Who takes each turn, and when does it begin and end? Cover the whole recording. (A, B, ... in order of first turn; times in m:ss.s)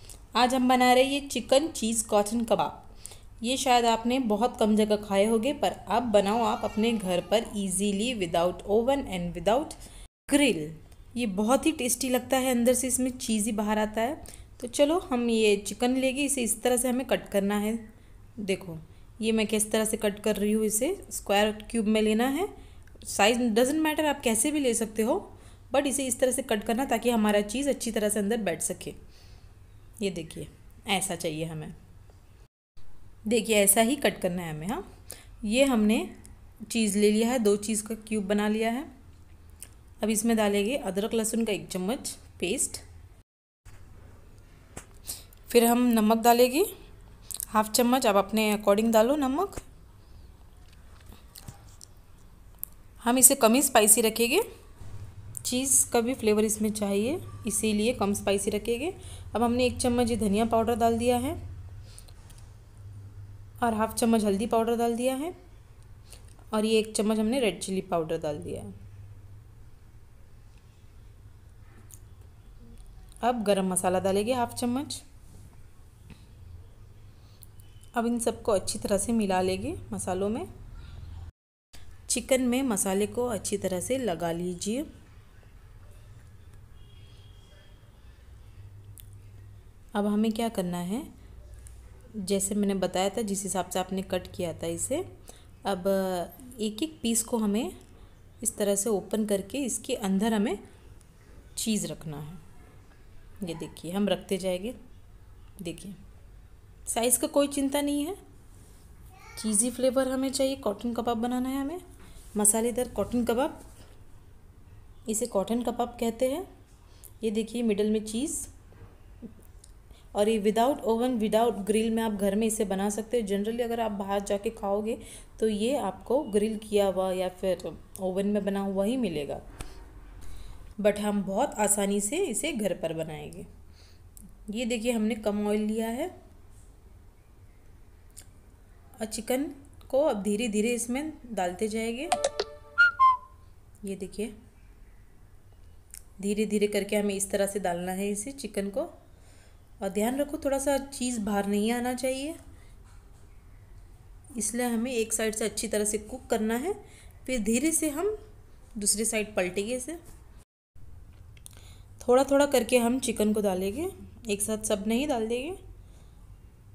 0:00.4-0:02.9 A
0:03.4-0:17.8 A
0:18.4-0:29.0 A
0:30.0-0:31.8 A
0:33.3-0:34.9 A
0:35.4-0:36.1 A
0:36.7-0:38.9 A
0:40.0-0:42.8 A
0:45.5-0:46.7 A
0:47.5-0:49.6 A
0:53.0-0:54.4 A
0:55.4-1:01.4 A
1:03.6-1:05.4 A
1:06.5-1:08.8 A
1:13.2-1:15.0 A
1:17.9-1:20.5 A
1:22.1-1:24.9 A
1:29.9-1:31.1 A
1:32.2-1:35.1 A
1:35.6-1:37.7 A
1:38.4-1:40.6 A
1:41.6-1:42.4 A
1:43.4-1:44.8 A
1:45.6-1:46.0 A
1:46.9-1:48.2 A
1:49.4-1:51.8 A
1:52.4-1:53.6 A
1:55.1-1:56.5 A
1:57.2-1:58.5 A
2:00.1-2:09.4 A
2:10.8-2:13.5 A
2:14.5-2:16.1 A
2:19.0-2:22.1 A
2:23.8-2:24.3 A
2:26.2-2:28.9 A
2:29.8-2:32.4 A
2:34.4-2:38.2 A
2:38.8-2:40.0 A
2:42.0-2:45.6 A